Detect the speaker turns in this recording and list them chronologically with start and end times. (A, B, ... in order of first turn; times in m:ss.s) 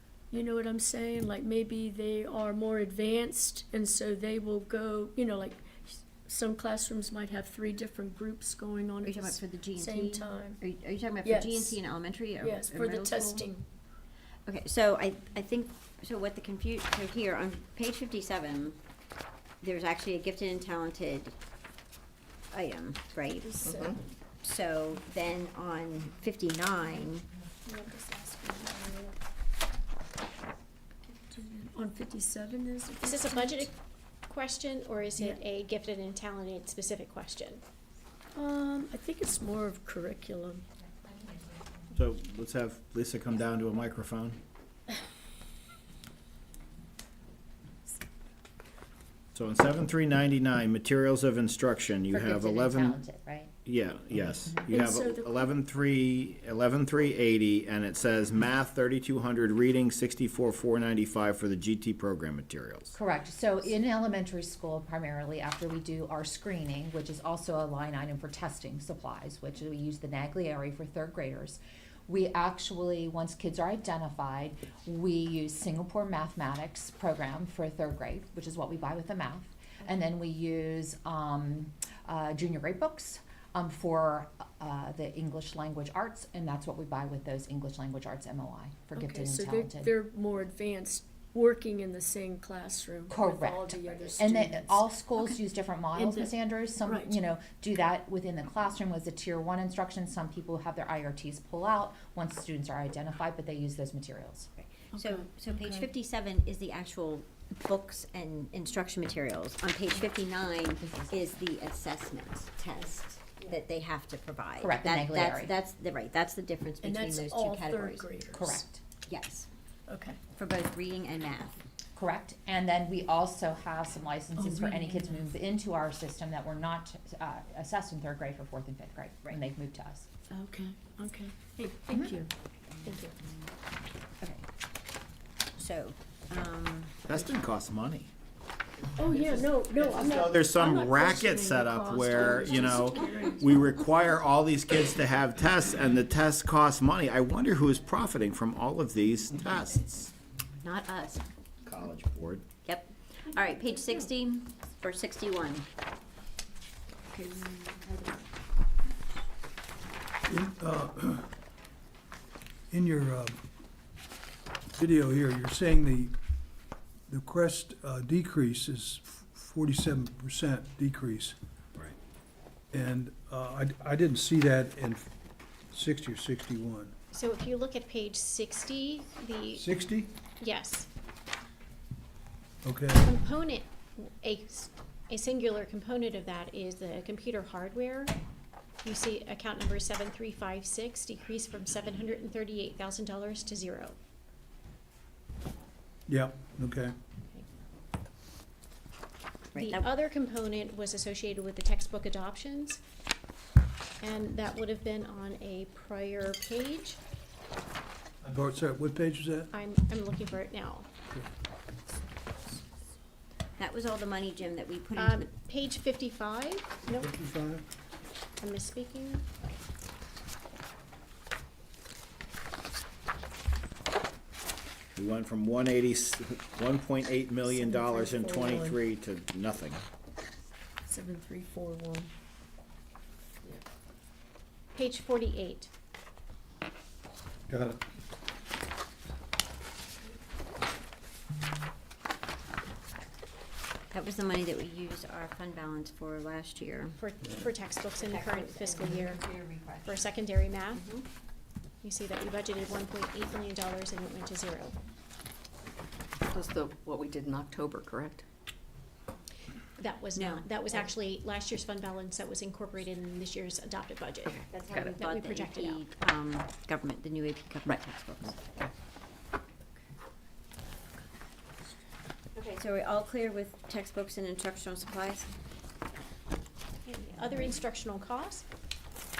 0:00.3-0:10.6 A
0:09.0-0:13.5 B
0:11.2-0:11.8 A
0:12.4-0:13.6 A
0:14.5-0:18.8 B
0:19.6-0:21.3 B
0:22.5-0:23.7 B
0:23.4-0:24.0 A
0:24.4-0:27.2 B
0:27.6-0:29.2 A
0:31.1-0:33.7 A
0:33.0-0:33.8 C
0:34.3-0:37.6 C
0:38.3-0:40.6 A
0:41.1-0:41.7 D
0:41.9-0:44.4 E
0:49.3-0:53.0 E
0:52.1-0:53.5 D
0:53.6-1:03.0 E
0:54.7-0:55.5 A
1:02.9-1:29.9 D
1:29.0-1:35.3 A
1:33.1-1:44.5 D
1:35.9-1:37.1 A
1:44.6-1:58.0 B
1:44.9-1:45.9 A
1:50.8-1:51.4 D
1:54.6-1:55.5 D
1:56.8-1:58.6 A
1:58.3-1:58.8 D
1:59.1-1:59.5 B
1:59.9-2:00.2 A
2:00.3-2:01.6 B
2:02.0-2:10.1 D
2:04.4-2:04.9 A
2:10.3-2:12.3 A
2:12.8-2:13.1 B
2:12.8-2:13.2 C
2:15.6-2:17.2 B
2:17.1-2:18.1 E
2:19.0-2:23.6 A
2:19.7-2:30.1 E
2:30.6-2:31.2 B
2:31.6-2:32.4 E
2:32.6-2:35.6 B
2:40.3-2:41.3 F
2:42.7-2:43.4 F
2:44.8-2:46.1 F
2:47.1-2:51.4 F
2:52.7-2:55.1 F
2:55.7-2:57.0 F
2:57.1-2:59.7 C
2:59.6-3:00.1 F
3:00.4-3:00.9 C
3:02.6-3:03.1 F
3:03.0-3:08.2 C
3:08.8-3:14.0 C
3:16.1-3:16.9 F
3:19.5-3:20.0 B
3:19.5-3:22.8 C
3:24.0-3:27.0 C
3:28.2-3:29.5 F
3:29.5-3:30.9 C
3:33.6-3:35.3 B
3:34.9-3:37.1 C
3:37.0-3:37.6 F
3:38.4-3:39.3 C
3:45.0-3:49.8 E
3:47.4-3:48.8 A
3:50.8-3:52.1 A
3:54.7-3:55.7 C
3:57.5-3:57.8 F
4:03.9-4:06.9 B
4:06.9-4:09.3 C
4:07.2-4:07.5 F
4:08.0-4:10.0 B
4:09.8-4:10.8 C
4:10.7-4:11.0 B
4:11.8-4:14.7 C
4:16.2-4:18.2 G
4:19.8-4:25.9 C
4:20.2-4:20.8 B
4:24.5-4:28.4 B
4:32.3-4:35.3 B
4:36.8-4:38.4 C